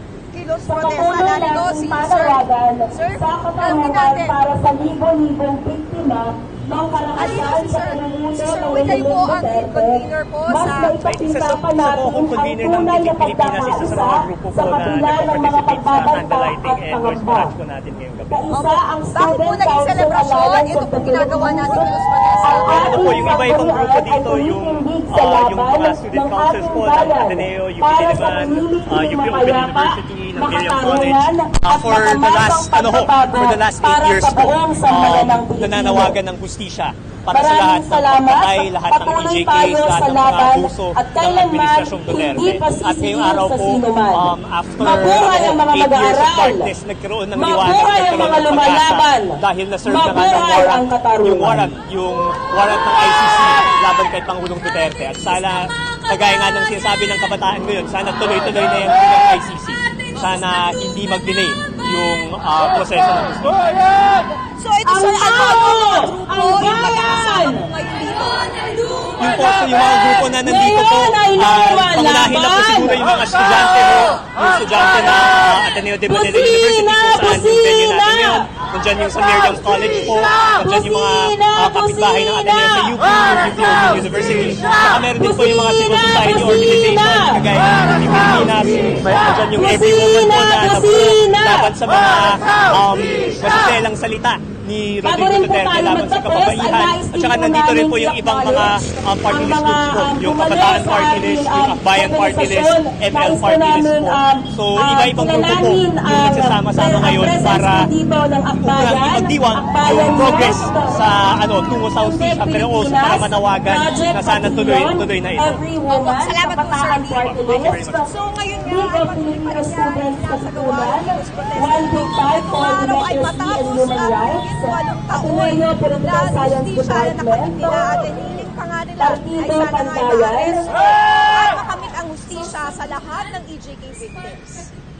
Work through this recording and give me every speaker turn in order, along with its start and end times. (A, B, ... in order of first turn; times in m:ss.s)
0:00.3-0:04.4 A
0:00.6-0:17.5 B
0:06.8-0:11.0 A
0:11.0-0:18.4 C
0:18.3-0:36.2 B
0:18.5-0:23.4 A
0:22.6-1:04.0 C
0:37.3-0:46.7 B
0:47.4-0:51.7 B
1:04.4-1:10.2 A
1:04.8-1:07.7 B
1:09.2-1:47.9 C
1:09.9-1:13.7 B
1:16.0-1:18.6 B
1:19.2-1:19.7 B
1:20.4-1:23.1 B
1:23.6-1:27.5 B
1:29.5-1:31.8 B
1:35.0-2:08.0 B
1:48.6-1:55.6 C
1:55.9-2:14.7 A
1:57.2-1:58.1 C
2:09.0-2:10.8 B